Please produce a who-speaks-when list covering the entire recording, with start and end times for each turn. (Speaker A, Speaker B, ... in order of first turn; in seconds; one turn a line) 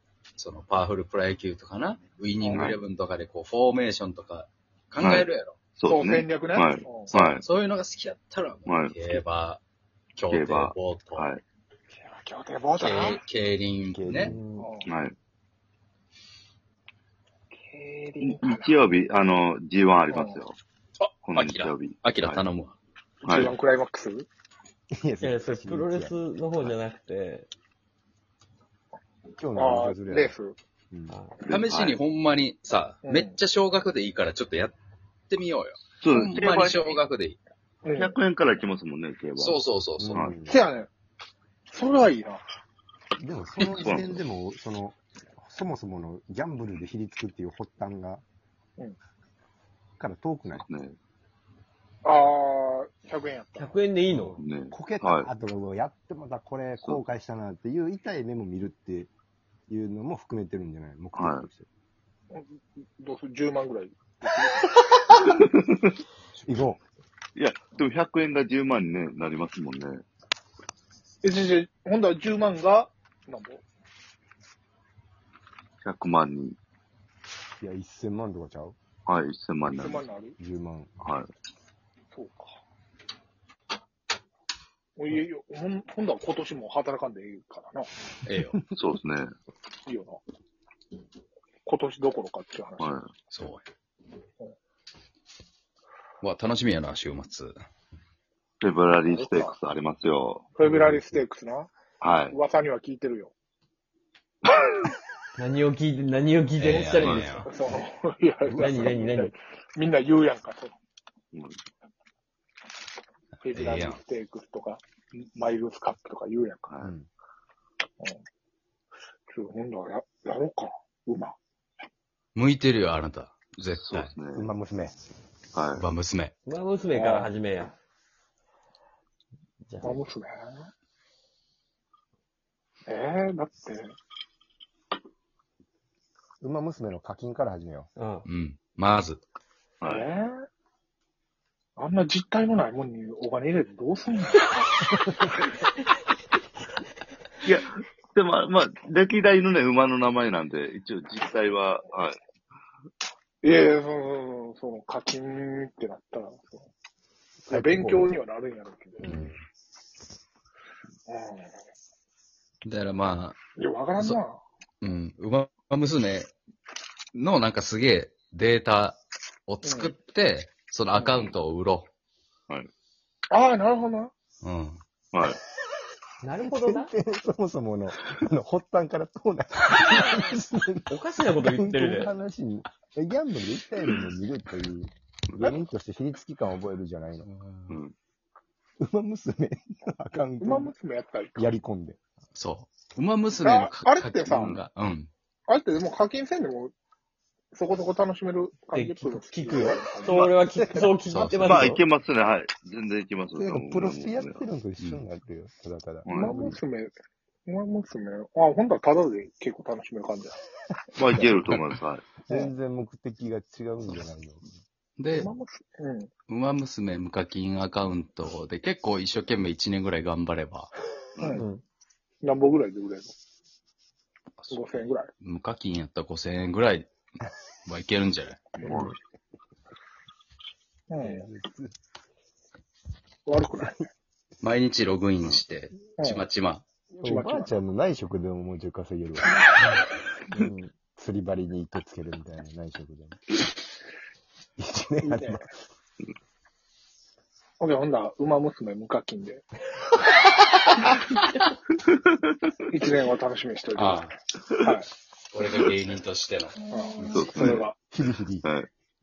Speaker A: 0.4-5.6
Speaker B: 2.4-2.7
Speaker C: 2.5-2.8
Speaker C: 5.0-7.4
Speaker B: 5.8-7.1
Speaker A: 7.1-9.6
Speaker C: 8.7-8.9
Speaker A: 10.2-11.3
Speaker C: 10.3-11.4
Speaker B: 11.9-13.2
Speaker A: 12.8-14.3
Speaker D: 13.9-14.4
Speaker E: 14.2-14.7
Speaker B: 14.6-14.9
Speaker C: 14.8-15.1
Speaker B: 17.6-18.7
Speaker C: 18.2-20.6
Speaker B: 20.1-20.4
Speaker A: 21.0-22.8
Speaker C: 21.2-22.4
Speaker B: 23.2-24.3
Speaker C: 23.2-23.6
Speaker D: 24.9-26.2
Speaker E: 25.2-27.5
Speaker D: 29.4-30.4
Speaker B: 29.6-30.6
Speaker D: 30.9-31.2
Speaker E: 31.1-31.4
Speaker C: 31.4-32.0
Speaker A: 31.5-34.8
Speaker B: 33.0-33.4
Speaker A: 35.3-37.4
Speaker C: 36.0-37.0
Speaker B: 37.8-38.2
Speaker C: 37.9-40.4
Speaker A: 39.4-40.3
Speaker D: 40.0-40.6
Speaker B: 40.5-40.9
Speaker B: 41.7-42.4
Speaker D: 43.2-48.2
Speaker C: 43.7-44.2
Speaker D: 50.0-50.6
Speaker C: 50.5-51.0
Speaker B: 52.0-53.8
Speaker E: 53.5-54.4
Speaker D: 54.1-59.1
Speaker C: 54.4-55.3
Speaker D: 59.7-61.7
Speaker C: 61.1-61.5
Speaker B: 62.3-64.8
Speaker C: 65.3-65.9
Speaker D: 66.4-66.8
Speaker C: 67.3-70.0
Speaker B: 71.2-73.6
Speaker C: 75.8-76.6
Speaker D: 77.6-78.8
Speaker C: 79.0-80.0
Speaker B: 79.6-80.4
Speaker D: 80.4-81.0
Speaker C: 81.0-81.3
Speaker B: 82.1-82.6
Speaker B: 85.0-87.9
Speaker A: 88.2-88.6
Speaker C: 88.7-89.3
Speaker B: 89.9-90.2
Speaker B: 91.6-93.0
Speaker C: 92.8-93.1
Speaker A: 93.3-93.6
Speaker A: 96.2-97.5
Speaker C: 98.6-100.5
Speaker B: 99.0-99.5
Speaker B: 100.5-101.7
Speaker D: 100.6-101.2
Speaker C: 102.0-102.3
Speaker B: 102.3-103.3
Speaker E: 105.3-107.5
Speaker A: 106.6-107.5
Speaker B: 107.4-110.7
Speaker D: 108.4-109.0
Speaker E: 108.5-109.3
Speaker C: 111.3-111.6
Speaker B: 113.4-116.6
Speaker A: 113.5-114.0
Speaker C: 116.7-116.9
Speaker D: 116.8-117.1
Speaker B: 119.3-121.3
Speaker A: 122.3-124.1
Speaker C: 123.8-124.5
Speaker D: 124.3-125.0
Speaker C: 125.5-125.8
Speaker A: 125.7-126.3
Speaker E: 126.5-127.7
Speaker B: 126.9-127.3
Speaker E: 129.6-130.1
Speaker B: 129.8-130.7
Speaker B: 132.9-133.9
Speaker D: 136.4-137.9
Speaker E: 137.9-138.2
Speaker A: 138.2-139.2
Speaker C: 139.8-140.1
Speaker B: 139.8-140.3
Speaker B: 141.8-144.5
Speaker C: 147.4-152.2
Speaker B: 153.4-156.7
Speaker D: 157.4-158.1
Speaker B: 157.5-159.1
Speaker D: 159.0-159.4
Speaker B: 161.1-161.5
Speaker A: 162.6-163.4
Speaker B: 163.6-164.4
Speaker A: 164.8-166.3
Speaker A: 167.1-171.9
Speaker B: 169.6-169.9
Speaker B: 173.3-174.1
Speaker A: 174.4-174.8
Speaker C: 175.1-175.4
Speaker E: 176.2-176.9
Speaker D: 176.4-187.3
Speaker E: 180.9-182.1
Speaker C: 185.3-185.6
Speaker A: 187.2-187.8
Speaker C: 187.7-187.9
Speaker D: 188.8-190.7
Speaker B: 190.4-191.4
Speaker D: 191.3-192.0
Speaker A: 192.3-195.1
Speaker B: 193.4-194.6
Speaker B: 195.5-196.7
Speaker B: 197.5-200.3
Speaker E: 198.7-201.8
Speaker D: 200.1-201.0
Speaker A: 201.1-201.7
Speaker C: 201.4-204.4
Speaker D: 203.3-206.6
Speaker A: 204.8-205.0
Speaker C: 206.0-206.4
Speaker B: 206.1-206.9
Speaker B: 207.5-210.4
Speaker C: 211.0-212.2
Speaker D: 212.2-214.5
Speaker A: 215.0-215.3
Speaker B: 215.1-216.1
Speaker A: 216.3-220.7
Speaker C: 221.2-221.4
Speaker B: 221.2-221.4
Speaker E: 221.3-221.6
Speaker B: 222.2-223.1
Speaker A: 224.4-226.9
Speaker B: 224.5-225.1
Speaker A: 227.7-228.7
Speaker D: 228.6-228.9
Speaker C: 228.6-228.9
Speaker B: 230.9-231.3
Speaker D: 231.0-231.7
Speaker B: 233.2-233.8
Speaker A: 234.4-236.6
Speaker B: 236.0-236.2
Speaker D: 236.9-239.4
Speaker B: 237.0-237.5
Speaker D: 240.3-243.2
Speaker D: 244.6-245.5
Speaker B: 245.0-245.4
Speaker B: 247.6-249.4
Speaker C: 251.8-252.5
Speaker B: 252.7-254.8
Speaker A: 253.7-254.1
Speaker A: 255.3-256.6
Speaker C: 255.4-255.7
Speaker B: 256.7-257.7
Speaker C: 257.0-257.7
Speaker D: 257.4-258.4
Speaker C: 258.4-258.7